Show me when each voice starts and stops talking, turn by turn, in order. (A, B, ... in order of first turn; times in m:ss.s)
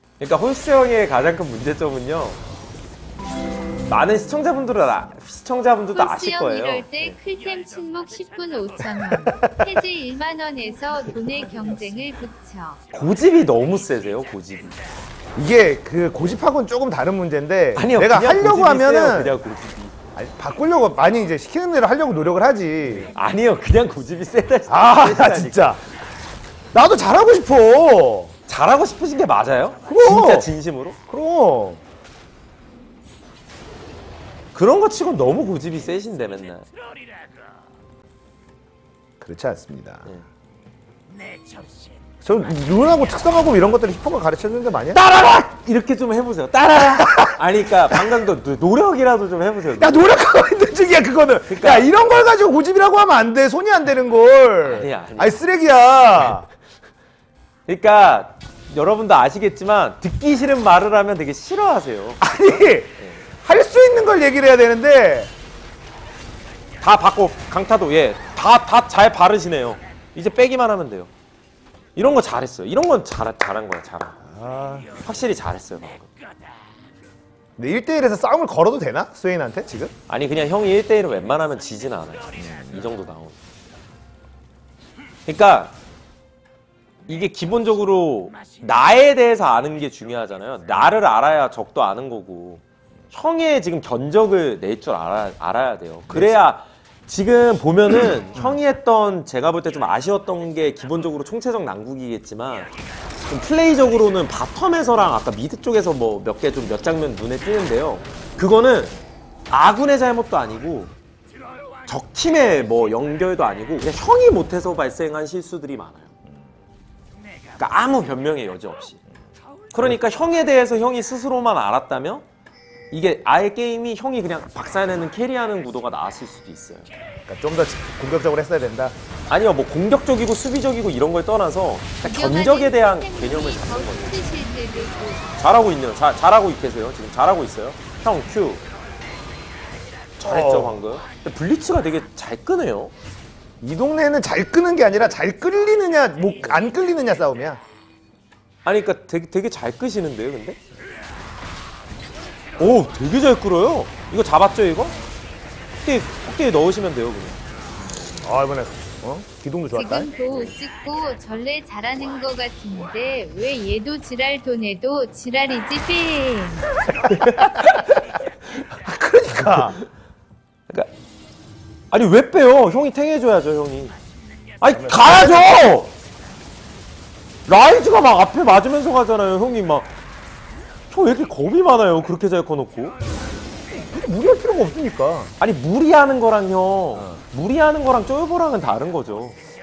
0:00.2-0:02.4 A
0:03.9-0:07.2 A
0:05.9-0:12.8 B
0:12.9-0:14.8 A
0:15.4-0:19.4 C
0:17.8-0:20.0 A
0:20.2-0:23.1 C
0:23.1-0:25.8 A
0:24.7-0:25.8 C
0:26.7-0:28.4 C
0:28.5-0:31.0 A
0:29.9-0:30.5 C
0:31.1-0:31.8 C
0:34.6-0:36.7 A
0:39.2-0:40.1 C
0:42.2-0:45.0 C
0:44.9-0:50.1 A
0:49.8-0:56.5 C
0:51.5-0:51.9 A
0:54.6-0:55.4 A
0:57.7-1:03.2 A
1:02.2-1:05.3 C
1:06.8-1:11.1 A
1:12.0-1:14.2 A
1:14.2-1:14.9 C
1:15.0-1:16.1 A
1:17.6-1:19.9 C
1:20.1-1:23.4 A
1:22.4-1:22.8 C
1:25.3-1:25.7 A
1:27.1-1:42.7 A
1:36.1-1:36.4 C
1:43.3-1:49.0 A
1:49.5-1:50.9 A
1:51.9-1:56.1 A
1:57.6-1:59.0 A
1:59.7-2:02.2 A
2:02.9-2:06.9 A
2:07.3-2:09.0 C
2:09.3-2:14.4 A
2:12.0-2:15.4 B
2:15.4-2:18.6 A
2:20.2-2:22.9 A
2:20.2-2:20.8 C
2:23.6-2:27.6 C
2:28.6-2:30.6 A
2:32.6-2:35.0 A
2:35.8-2:37.4 A
2:38.2-2:40.1 C
2:39.7-2:46.7 B
2:47.1-2:47.8 A
2:47.3-2:47.8 C
2:48.8-2:49.8 C
2:51.9-2:54.0 A
2:54.6-2:55.9 A
2:54.7-2:55.5 C
2:57.5-2:59.9 A
3:00.9-3:03.0 A
3:03.7-3:05.3 C
3:05.4-3:09.4 A
3:07.0-3:07.2 C